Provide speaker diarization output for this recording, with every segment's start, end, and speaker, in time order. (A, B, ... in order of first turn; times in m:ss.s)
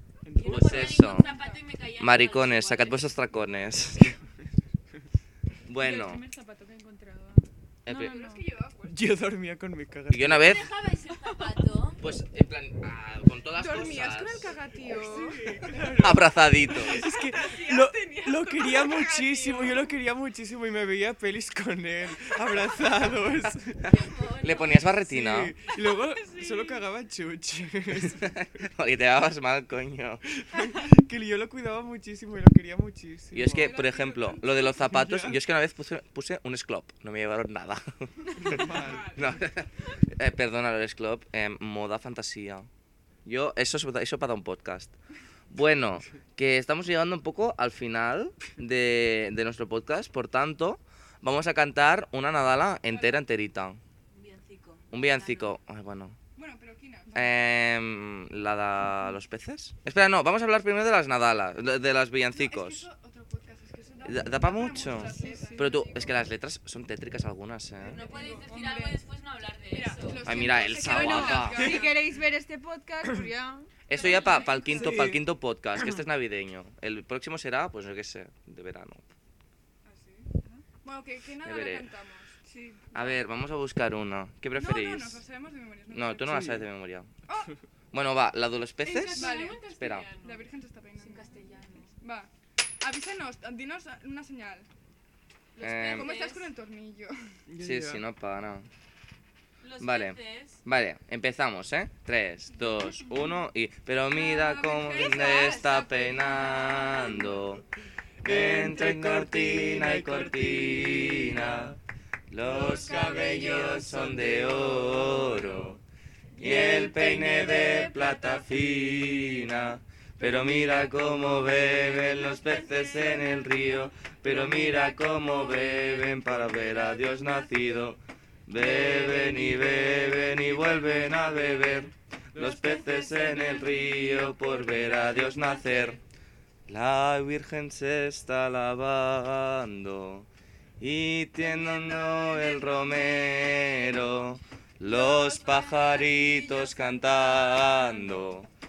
0:00.2-0:01.1 A
0:00.4-0:03.1 B
0:00.4-0:01.3 C
0:00.9-0:01.6 D
0:02.0-0:04.2 C
0:05.7-0:06.2 C
0:05.8-0:08.4 E
0:07.8-0:08.1 C
0:08.0-0:09.2 D
0:08.8-0:10.6 A
0:10.1-0:10.6 C
0:10.3-0:12.0 B
0:11.1-0:11.4 E
0:12.0-0:14.5 C
0:13.5-0:16.0 D
0:14.8-0:23.9 A
0:16.0-0:17.0 C
0:16.9-0:19.9 D
0:23.8-0:25.5 C
0:23.8-0:24.9 B
0:25.0-0:28.6 A
0:28.0-0:30.2 C
0:30.3-0:33.8 A
0:33.3-0:42.7 C
0:33.4-0:34.7 D
0:34.7-0:35.4 A
0:38.4-0:39.5 D
0:38.4-0:39.3 A
0:43.2-0:44.9 C
0:45.5-0:53.8 C
0:52.9-0:53.2 D
0:54.1-0:55.5 B
0:54.9-0:56.2 C
0:56.4-0:57.4 D
0:57.1-1:02.9 C
1:02.3-1:06.2 D
1:04.0-1:08.0 C
1:05.1-1:05.7 E
1:07.8-1:10.4 B
1:07.9-1:09.0 D
1:09.7-1:12.0 D
1:10.2-1:11.9 C
1:10.7-1:13.7 E
1:13.9-1:19.1 C
1:14.0-1:14.8 B
1:14.0-1:14.7 D
1:14.7-1:15.2 A
1:19.8-1:20.3 D
1:20.8-1:22.4 D
1:21.4-1:21.9 C
1:22.5-1:23.0 E
1:22.9-1:25.2 C
1:24.5-1:26.4 D
1:25.9-1:27.1 C
1:26.3-1:26.6 A
1:27.9-1:30.1 C
1:28.8-1:31.9 B
1:28.8-1:32.3 D
1:32.8-1:34.7 D
1:35.6-1:36.5 B
1:35.6-1:36.1 C
1:35.9-1:37.1 D
1:37.5-1:38.0 A
1:37.6-1:38.7 C
1:39.6-1:40.6 B
1:39.8-1:47.6 C
1:44.1-1:47.4 D
1:45.2-1:45.7 B
1:45.2-1:45.6 E
1:48.2-1:51.7 A
1:48.2-1:51.8 C
1:52.3-1:55.8 C
1:52.4-1:54.3 D
1:52.9-1:53.6 B
1:56.4-2:16.0 C
1:56.4-1:57.9 D
1:56.5-1:56.9 B
2:00.6-2:08.0 B
2:08.8-2:09.5 B
2:10.6-2:11.1 B
2:12.3-2:12.6 A
2:12.4-2:14.2 D
2:12.5-2:16.0 B
2:16.7-2:20.3 C
2:20.8-2:28.5 C
2:21.4-2:23.7 D
2:24.9-2:28.1 D